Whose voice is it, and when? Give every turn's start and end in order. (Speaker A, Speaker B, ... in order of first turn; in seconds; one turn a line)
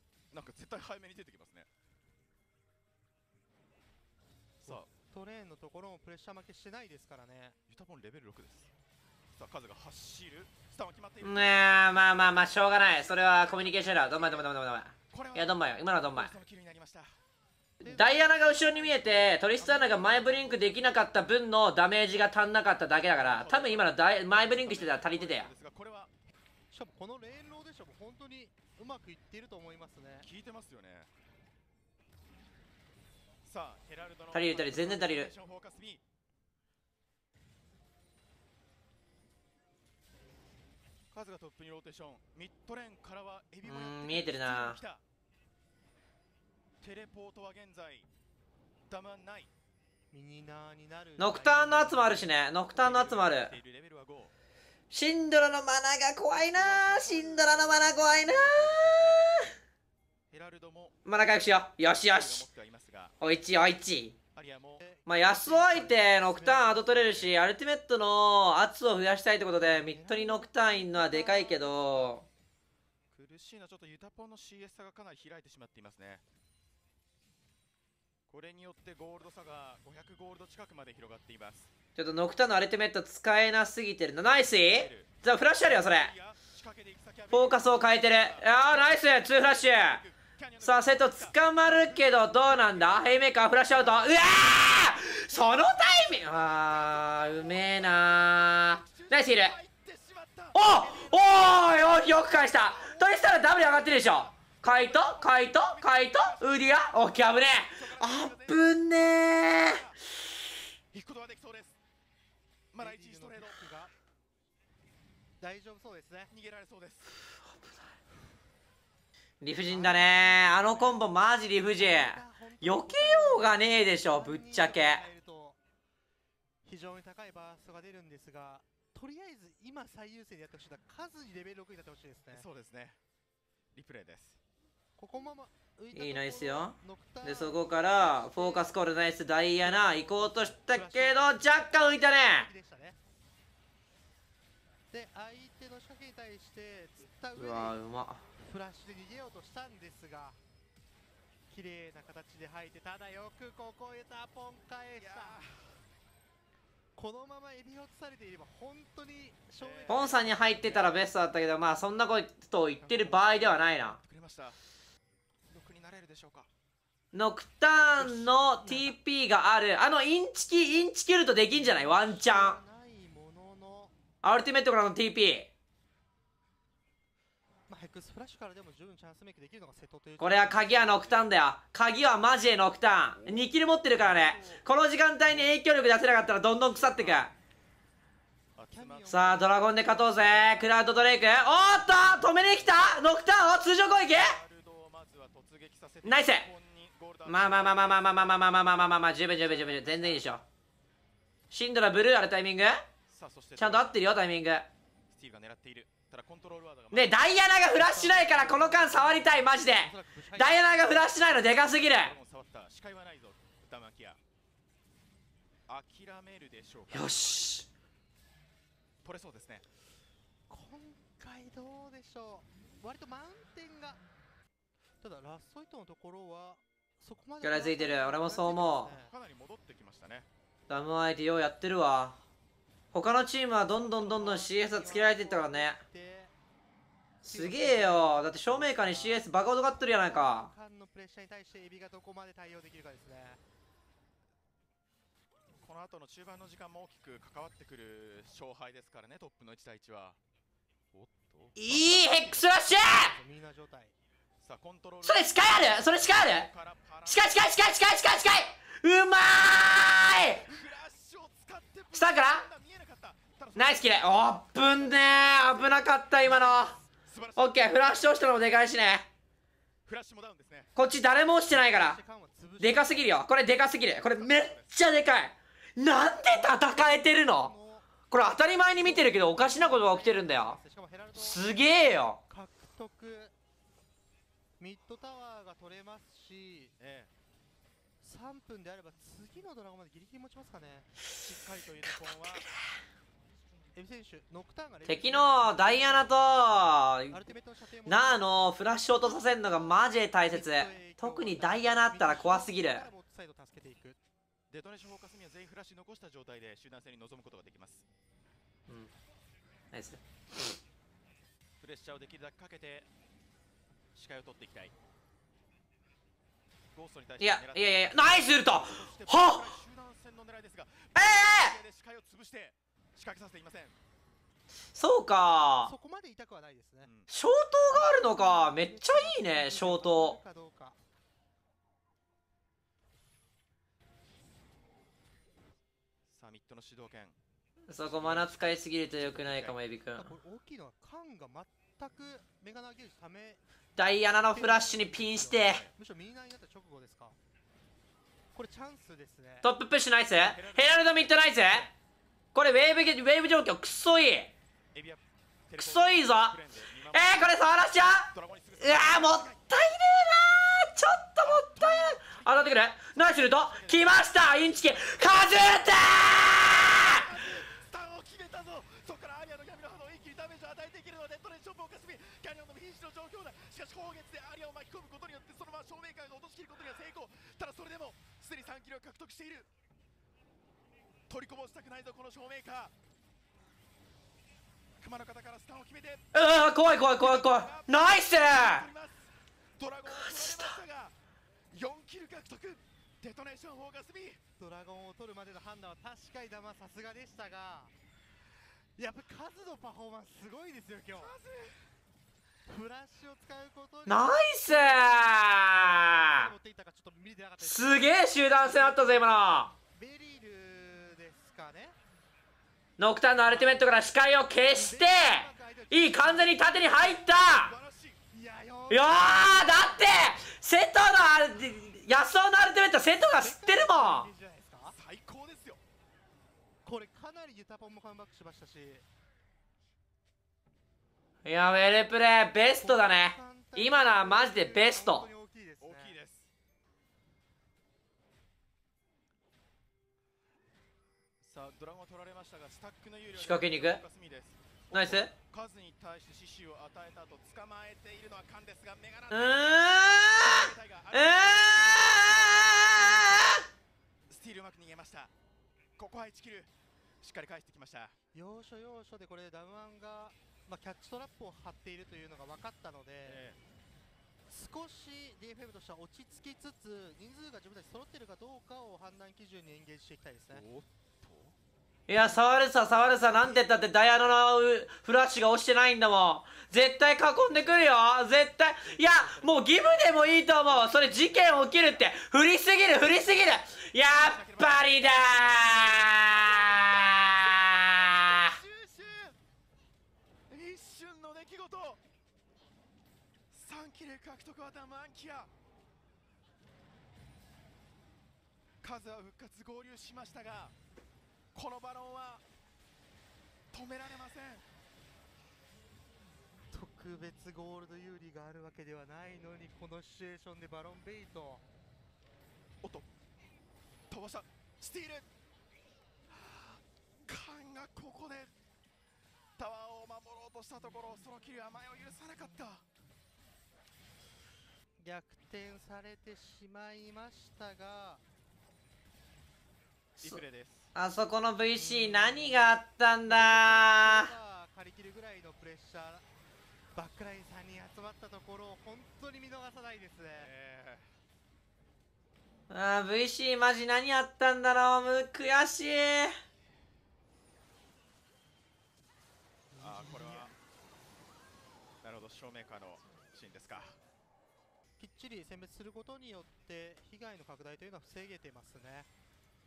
Speaker A: 0.3-1.7
Speaker A: 4.6-4.9
Speaker B: 4.6-7.6
Speaker A: 7.7-8.7
Speaker A: 9.3-14.5
Speaker C: 11.2-16.3
Speaker A: 15.1-17.2
Speaker B: 17.8-21.3
Speaker C: 17.8-25.5
Speaker A: 23.1-26.1
Speaker B: 26.7-30.3
Speaker A: 30.2-31.1
Speaker A: 33.4-36.0
Speaker C: 34.3-35.3
Speaker A: 41.1-45.0
Speaker C: 43.6-44.8
Speaker A: 46.8-48.1
Speaker A: 48.9-49.5
Speaker B: 50.1-52.3
Speaker C: 51.2-53.5
Speaker A: 52.8-54.3
Speaker C: 54.9-59.5
Speaker A: 56.3-59.5
Speaker A: 60.3-61.0
Speaker C: 61.0-62.5
Speaker A: 62.0-63.1
Speaker C: 63.2-64.2
Speaker A: 64.3-64.8
Speaker B: 64.8-67.3
Speaker C: 65.0-72.2
Speaker B: 69.6-72.2
Speaker A: 73.1-76.2
Speaker A: 78.3-81.7
Speaker C: 82.0-86.1
Speaker A: 84.2-110.0
Speaker C: 87.3-90.0
Speaker C: 90.6-99.5
Speaker C: 100.5-109.8
Speaker A: 110.9-111.8
Speaker A: 112.7-113.6
Speaker B: 112.8-113.9
Speaker B: 115.4-116.3
Speaker A: 116.3-117.1
Speaker C: 119.4-125.0
Speaker B: 119.7-121.0
Speaker A: 119.9-120.9
Speaker B: 121.7-125.6
Speaker B: 126.6-132.4
Speaker A: 132.3-133.0
Speaker A: 133.7-134.4
Speaker B: 134.9-138.8
Speaker C: 135.9-142.5
Speaker B: 139.6-143.0
Speaker B: 144.9-147.8
Speaker C: 147.3-148.2
Speaker B: 148.4-150.4
Speaker B: 151.5-155.4
Speaker A: 154.9-155.8
Speaker B: 156.9-160.4
Speaker A: 159.6-161.0
Speaker C: 159.9-164.0
Speaker A: 162.8-164.6
Speaker A: 165.5-166.5
Speaker C: 167.1-172.6
Speaker A: 168.0-168.7
Speaker B: 171.5-173.9
Speaker C: 174.2-175.5
Speaker B: 177.7-181.1
Speaker C: 180.2-187.3
Speaker A: 180.8-181.3
Speaker A: 183.2-184.7
Speaker A: 186.3-187.3
Speaker A: 188.6-193.1
Speaker B: 188.7-190.0
Speaker C: 189.1-194.4
Speaker A: 194.0-200.4
Speaker C: 196.0-196.5
Speaker C: 197.2-200.4
Speaker C: 201.5-202.8
Speaker A: 203.1-204.0
Speaker C: 203.6-204.7
Speaker A: 205.1-207.3
Speaker C: 206.9-212.1
Speaker B: 207.7-211.4
Speaker A: 211.3-214.2
Speaker A: 215.7-217.3
Speaker C: 216.9-217.7
Speaker A: 219.0-219.7
Speaker B: 220.5-224.0
Speaker B: 225.0-229.1
Speaker C: 227.4-228.9
Speaker A: 229.0-230.3
Speaker C: 230.7-232.2
Speaker C: 232.9-235.8
Speaker B: 233.7-236.3
Speaker C: 237.2-240.5
Speaker B: 237.2-243.4
Speaker A: 245.6-250.2
Speaker A: 250.9-252.9
Speaker C: 251.6-253.2
Speaker B: 252.9-253.9
Speaker A: 254.4-258.0
Speaker C: 255.0-256.5
Speaker C: 257.1-260.5
Speaker A: 260.3-268.5
Speaker C: 261.9-262.4
Speaker C: 263.6-266.8
Speaker C: 267.4-269.1
Speaker A: 269.9-270.7
Speaker C: 270.8-272.0
Speaker B: 271.5-273.2
Speaker C: 272.6-277.5
Speaker A: 273.6-274.8
Speaker B: 276.0-278.1
Speaker C: 278.1-280.6
Speaker B: 278.7-281.5
Speaker C: 281.1-282.2
Speaker B: 282.3-283.3
Speaker B: 284.6-286.7
Speaker A: 286.8-287.1
Speaker B: 288.0-290.9
Speaker A: 291.1-292.5
Speaker B: 293.7-304.0
Speaker C: 294.9-297.2
Speaker C: 297.9-302.9
Speaker A: 304.5-307.8
Speaker C: 309.7-310.5
Speaker A: 311.6-312.9
Speaker A: 313.9-314.7
Speaker A: 316.7-323.8
Speaker C: 317.2-319.5
Speaker C: 320.9-321.6
Speaker C: 324.7-325.7
Speaker B: 325.6-326.9
Speaker A: 326.8-327.1
Speaker C: 327.1-330.2
Speaker B: 327.7-330.8
Speaker A: 336.1-337.2
Speaker C: 337.7-340.1
Speaker A: 337.8-339.6
Speaker B: 339.9-343.4
Speaker C: 343.8-345.7
Speaker B: 344.1-347.2
Speaker B: 348.3-349.5
Speaker C: 349.4-351.7
Speaker A: 350.2-351.7
Speaker C: 352.3-354.3
Speaker A: 354.7-357.4
Speaker C: 355.5-356.4
Speaker C: 356.9-367.1
Speaker A: 358.1-359.5
Speaker A: 361.2-365.8
Speaker A: 366.6-379.5
Speaker A: 381.1-382.7
Speaker A: 384.8-386.1
Speaker C: 386.1-388.6
Speaker A: 386.9-390.9
Speaker C: 389.9-390.5
Speaker A: 391.5-394.2
Speaker B: 394.4-397.7
Speaker B: 398.8-401.1
Speaker A: 400.9-401.7
Speaker B: 402.5-411.8
Speaker C: 403.9-406.3
Speaker C: 407.4-409.5
Speaker C: 412.8-417.5
Speaker B: 413.3-413.7
Speaker B: 414.5-416.8
Speaker A: 416.8-418.0
Speaker B: 418.1-419.9
Speaker C: 418.7-424.1
Speaker B: 423.1-424.8
Speaker A: 424.7-425.6
Speaker B: 426.6-428.9
Speaker C: 431.2-435.1
Speaker B: 432.6-436.0
Speaker A: 435.6-436.3
Speaker A: 441.2-453.4
Speaker C: 443.1-443.8
Speaker C: 444.7-445.1
Speaker C: 449.1-453.4
Speaker A: 454.1-455.1
Speaker A: 455.8-457.9
Speaker B: 458.1-463.2
Speaker A: 463.0-463.4
Speaker B: 464.3-470.4
Speaker A: 470.3-471.3
Speaker C: 471.9-488.3
Speaker A: 476.9-477.7
Speaker A: 478.6-481.9
Speaker A: 482.8-489.1
Speaker A: 490.3-491.8
Speaker A: 493.3-495.3
Speaker A: 498.6-500.5
Speaker A: 501.3-502.2
Speaker A: 503.5-504.5
Speaker B: 506.5-511.4
Speaker A: 512.6-512.9
Speaker A: 513.9-515.1
Speaker A: 516.1-518.3
Speaker A: 519.4-522.6
Speaker B: 524.8-528.0
Speaker A: 530.0-530.7
Speaker C: 530.7-534.1
Speaker B: 531.5-532.5
Speaker B: 533.0-536.1
Speaker B: 536.7-540.3
Speaker A: 540.2-540.9
Speaker C: 542.5-546.1
Speaker B: 549.5-550.3
Speaker A: 549.6-550.3
Speaker A: 551.8-553.8
Speaker B: 554.8-558.9